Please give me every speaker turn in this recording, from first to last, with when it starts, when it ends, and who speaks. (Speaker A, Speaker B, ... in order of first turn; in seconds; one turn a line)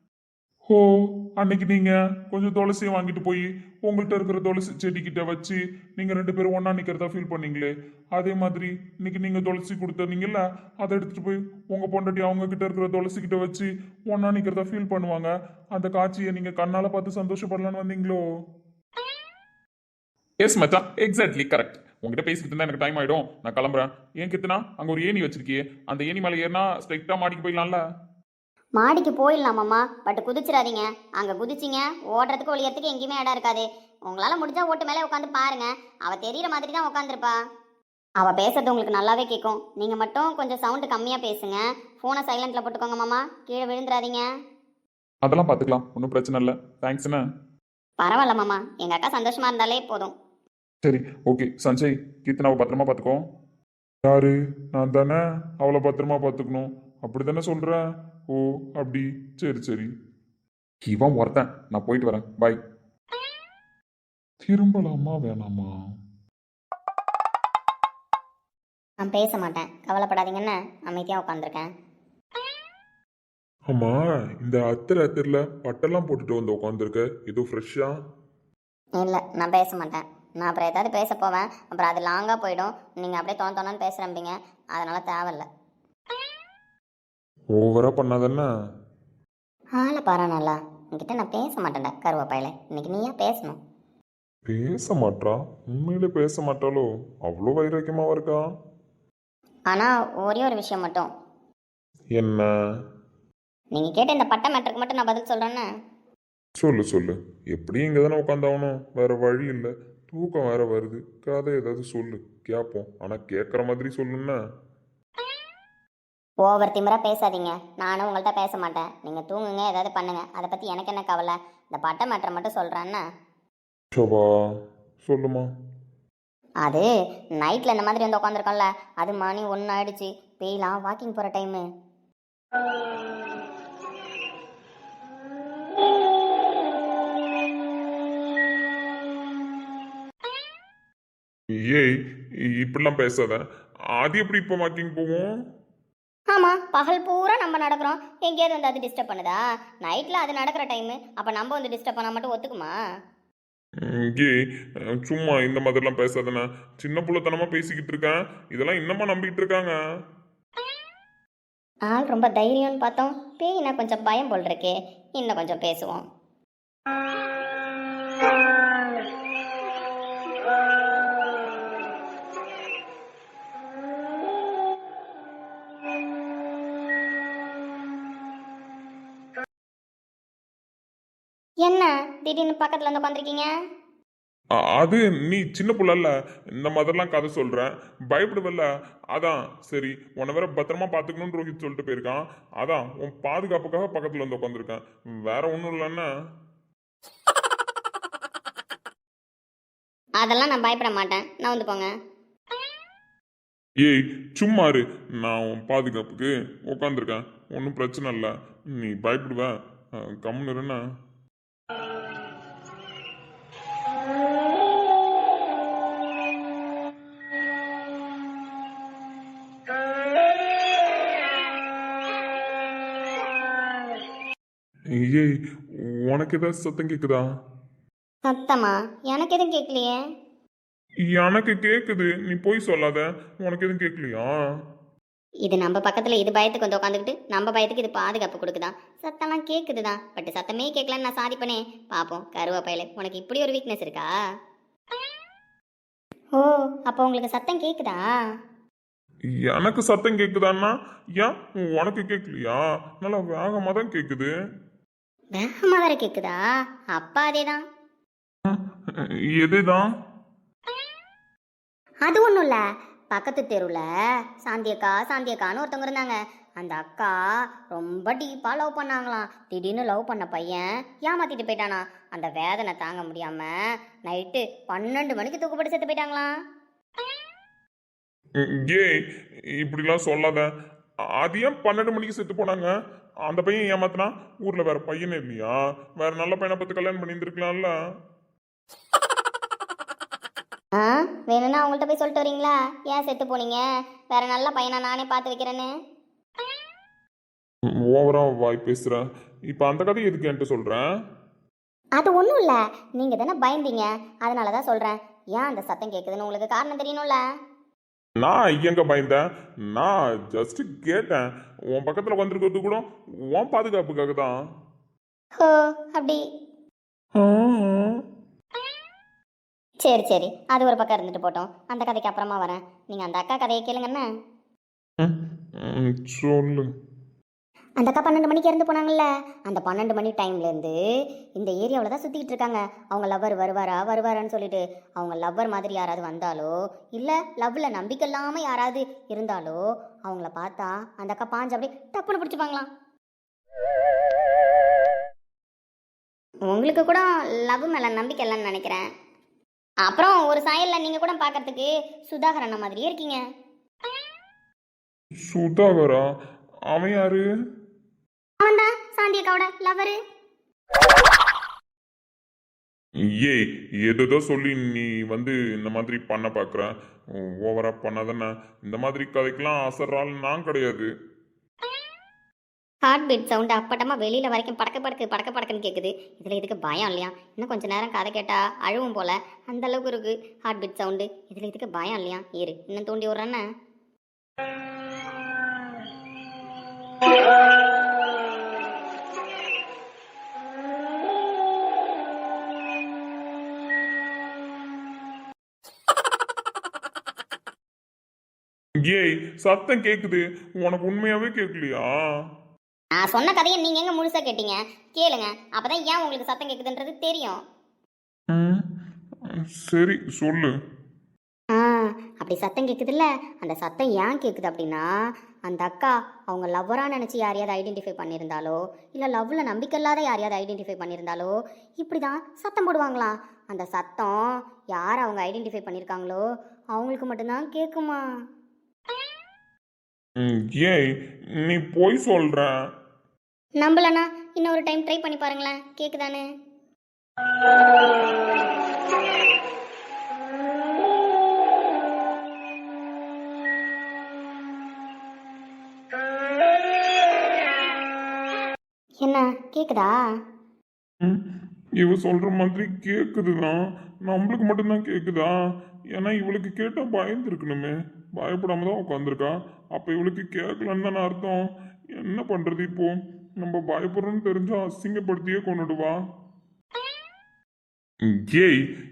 Speaker A: 0.7-18.2
Speaker B: 20.4-27.8
Speaker C: 28.8-37.3
Speaker C: 38.2-44.2
Speaker B: 45.2-47.2
Speaker C: 48.0-50.1
Speaker B: 50.8-53.2
Speaker A: 54.1-59.9
Speaker B: 60.9-62.6
Speaker A: 64.4-65.7
Speaker C: 69.0-71.7
Speaker A: 73.7-77.9
Speaker C: 79.0-85.5
Speaker A: 87.5-88.5
Speaker C: 89.8-93.6
Speaker A: 94.5-98.4
Speaker C: 99.7-101.1
Speaker A: 102.2-102.5
Speaker C: 103.7-105.7
Speaker A: 106.6-114.4
Speaker C: 116.5-123.0
Speaker A: 123.9-124.3
Speaker A: 125.0-125.5
Speaker C: 127.4-131.6
Speaker A: 141.5-141.9
Speaker A: 142.5-143.4
Speaker A: 144.0-145.3
Speaker C: 146.3-152.7
Speaker A: 153.8-154.3
Speaker A: 154.9-159.8
Speaker C: 161.9-166.0
Speaker C: 181.7-183.5
Speaker A: 184.6-196.1
Speaker C: 200.2-201.9
Speaker A: 203.8-210.8
Speaker A: 224.9-225.3
Speaker A: 225.9-227.2
Speaker C: 228.3-230.0
Speaker A: 231.1-234.3
Speaker C: 235.4-244.1
Speaker C: 246.4-248.0
Speaker A: 249.4-254.3
Speaker C: 255.3-256.4
Speaker C: 256.9-257.6
Speaker A: 258.5-259.9
Speaker C: 262.1-262.6
Speaker C: 263.1-263.8
Speaker C: 264.5-267.2
Speaker C: 267.7-273.5
Speaker C: 274.1-276.3
Speaker A: 278.4-278.9
Speaker A: 279.5-280.5
Speaker A: 281.2-282.7
Speaker A: 283.3-287.8
Speaker C: 290.8-293.6
Speaker C: 294.1-295.7
Speaker A: 297.7-300.9
Speaker C: 302.0-307.2
Speaker A: 308.2-314.3
Speaker C: 315.4-316.2
Speaker A: 317.2-318.0
Speaker C: 319.8-324.1
Speaker A: 325.0-326.7
Speaker C: 327.8-330.8
Speaker C: 331.4-342.7
Speaker C: 346.5-348.8
Speaker C: 349.9-353.2
Speaker A: 355.3-356.0
Speaker A: 356.7-357.2
Speaker C: 358.4-360.0
Speaker A: 363.1-370.9
Speaker C: 372.9-383.4
Speaker A: 398.9-402.2
Speaker C: 403.0-407.4
Speaker A: 408.3-408.6
Speaker A: 409.3-410.5
Speaker C: 411.6-414.9
Speaker C: 415.5-424.2
Speaker C: 424.7-426.2
Speaker C: 426.8-428.0
Speaker A: 430.2-432.6
Speaker C: 433.6-436.2
Speaker C: 449.0-449.9
Speaker A: 451.8-455.4
Speaker A: 455.9-466.0
Speaker A: 468.1-468.6